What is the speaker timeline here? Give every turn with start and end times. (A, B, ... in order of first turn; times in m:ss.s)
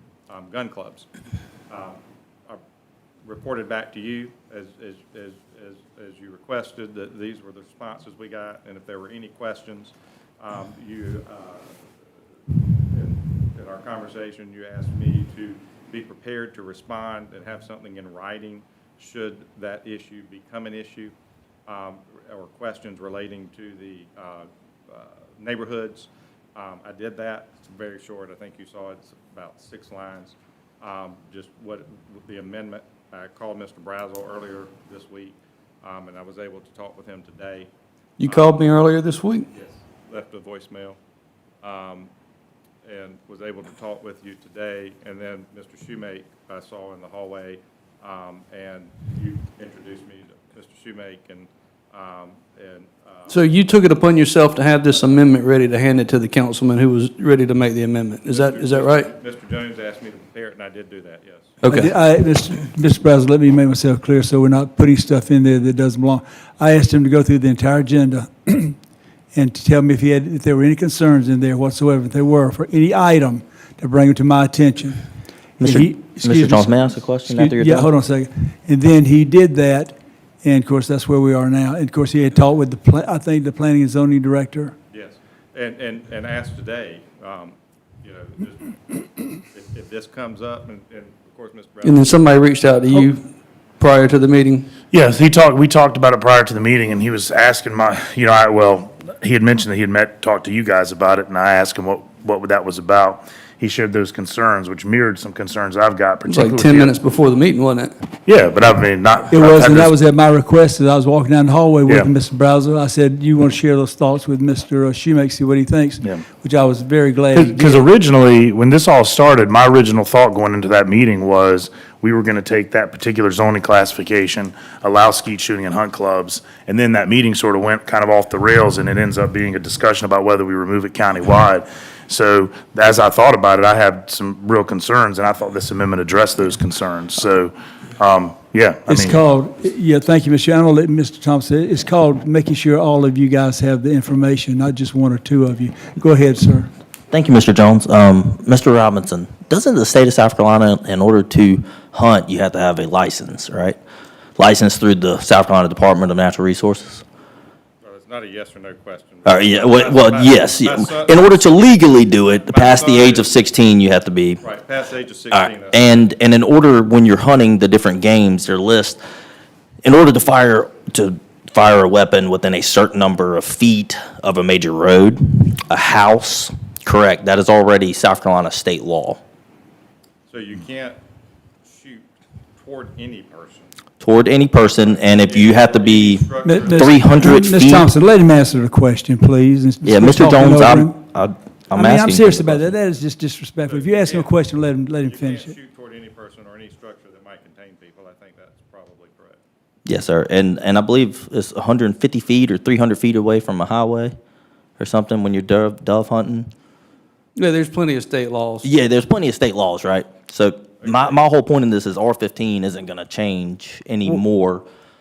0:00.3-0:01.1 A
0:01.7-0:02.6 A
0:03.3-0:11.9 A
0:12.9-0:21.1 A
0:21.7-0:37.7 A
0:38.2-0:39.5 B
0:38.2-0:38.8 A
0:39.5-0:41.0 A
0:41.6-0:42.1 A
0:42.8-0:53.4 A
0:53.3-0:59.1 B
0:58.3-1:01.6 A
1:01.6-1:02.0 B
1:01.8-1:08.7 C
1:09.3-1:15.0 C
1:15.6-1:17.9 D
1:15.6-1:16.5 C
1:17.4-1:24.8 C
1:24.9-1:32.4 A
1:31.8-1:33.2 B
1:33.8-1:34.7 B
1:34.9-1:47.0 E
1:46.3-1:47.9 B
1:48.3-1:49.9 E
1:49.3-1:57.8 C
1:51.9-1:52.1 E
1:57.3-2:19.2 E
2:18.9-2:26.7 C
2:27.1-2:33.8 D
2:34.4-2:37.0 D
2:37.8-2:41.5 A
2:39.2-2:44.4 D
2:42.3-2:43.4 A
2:44.4-2:46.0 A
2:45.3-2:49.0 D
2:49.8-2:59.2 D
3:00.3-3:01.0 A
3:01.6-3:03.7 A
3:04.0-3:07.9 D
3:04.7-3:07.5 A
3:06.4-3:06.9 C
3:07.6-3:10.8 C
3:09.8-3:12.7 D
3:11.8-3:15.4 C
3:13.6-3:14.4 A
3:15.0-3:19.4 A
3:19.9-3:24.1 D
3:24.8-3:26.5 D
3:27.4-3:28.7 B
3:28.6-3:34.6 D
3:30.8-3:31.2 A